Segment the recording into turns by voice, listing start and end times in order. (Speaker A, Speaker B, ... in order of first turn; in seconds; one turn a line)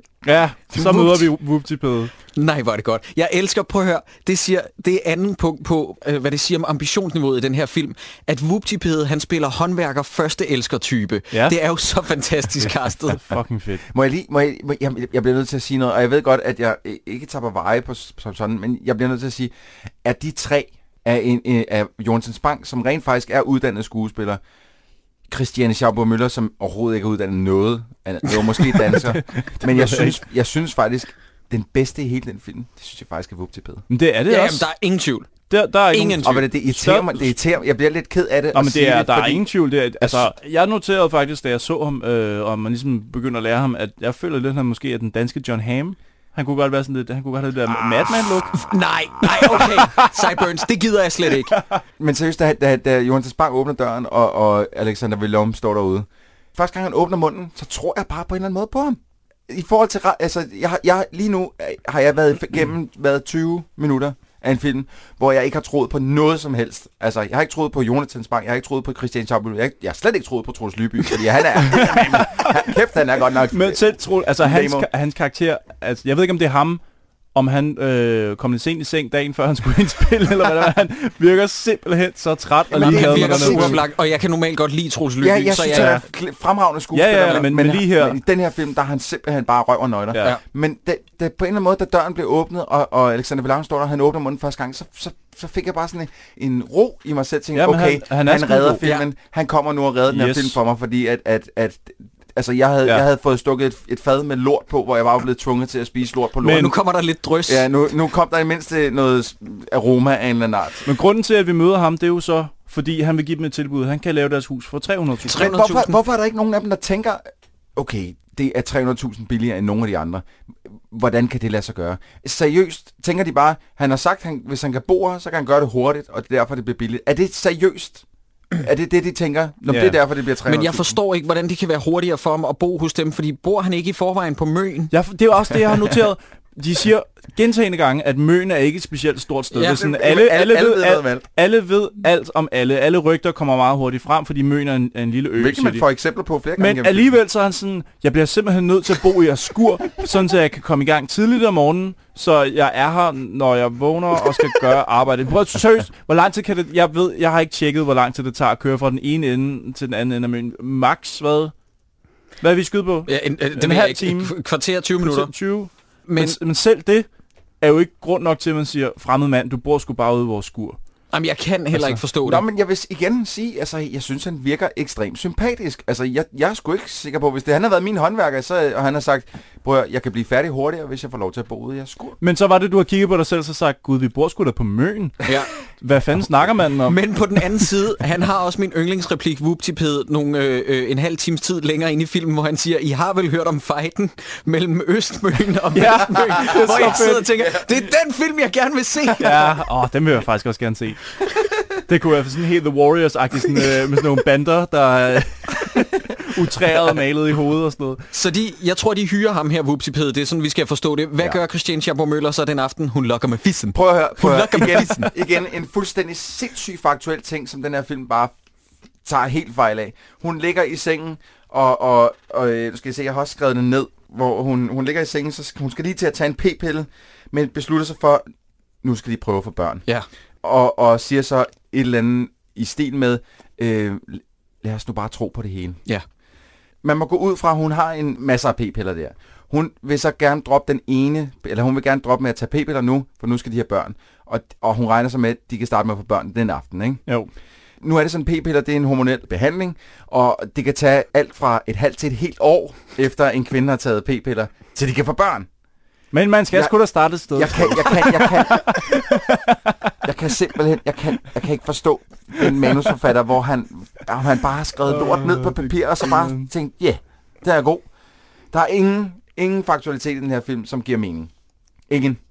Speaker A: 0.2-2.1
Speaker B: 0.8-1.3
Speaker B: 2.4-13.2
Speaker A: 11.3-11.6
Speaker A: 13.1-13.8
Speaker C: 13.9-19.5
Speaker C: 20.0-24.4
Speaker C: 25.3-33.8
Speaker A: 28.8-30.2
Speaker A: 33.9-34.7
Speaker B: 34.3-35.3
Speaker A: 35.5-37.3
Speaker B: 35.9-36.4
Speaker C: 36.2-39.5
Speaker A: 38.5-48.7
Speaker C: 40.0-40.3
Speaker C: 47.7-49.7
Speaker B: 48.5-51.5
Speaker A: 49.2-50.4
Speaker A: 51.5-51.8
Speaker C: 52.0-74.9
Speaker A: 71.7-72.6
Speaker A: 73.5-76.8
Speaker A: 77.3-83.8
Speaker C: 82.7-83.8
Speaker B: 82.8-86.0
Speaker C: 85.2-106.7
Speaker A: 85.7-86.0
Speaker A: 86.9-88.2
Speaker A: 97.5-98.8
Speaker A: 100.1-100.6
Speaker A: 106.4-106.7
Speaker B: 106.5-107.7
Speaker C: 107.5-110.9
Speaker A: 110.9-115.5
Speaker B: 115.3-116.0
Speaker C: 115.3-120.3
Speaker C: 120.9-128.0
Speaker C: 128.6-131.0
Speaker A: 129.7-130.0
Speaker B: 130.5-134.9
Speaker A: 134.9-145.8
Speaker B: 139.6-139.8
Speaker C: 139.6-141.2
Speaker C: 145.4-147.1
Speaker A: 146.6-161.5
Speaker A: 162.4-164.4
Speaker B: 163.1-165.3
Speaker A: 165.0-167.1
Speaker B: 166.1-166.4
Speaker A: 167.6-170.8
Speaker B: 171.1-172.4
Speaker A: 171.7-172.0
Speaker C: 172.2-182.2
Speaker A: 182.2-187.7
Speaker B: 186.9-199.5
Speaker A: 195.7-197.5
Speaker C: 196.7-197.0
Speaker A: 199.2-201.0
Speaker A: 201.9-208.0
Speaker B: 208.1-215.1
Speaker C: 213.7-218.3
Speaker C: 219.1-228.3
Speaker C: 228.8-229.8
Speaker C: 230.4-235.8
Speaker C: 236.8-247.0
Speaker C: 247.8-255.5
Speaker A: 256.1-260.1
Speaker C: 257.3-259.1
Speaker C: 260.0-267.9
Speaker A: 262.4-262.9
Speaker A: 264.9-266.5
Speaker C: 268.5-271.3
Speaker C: 271.9-272.2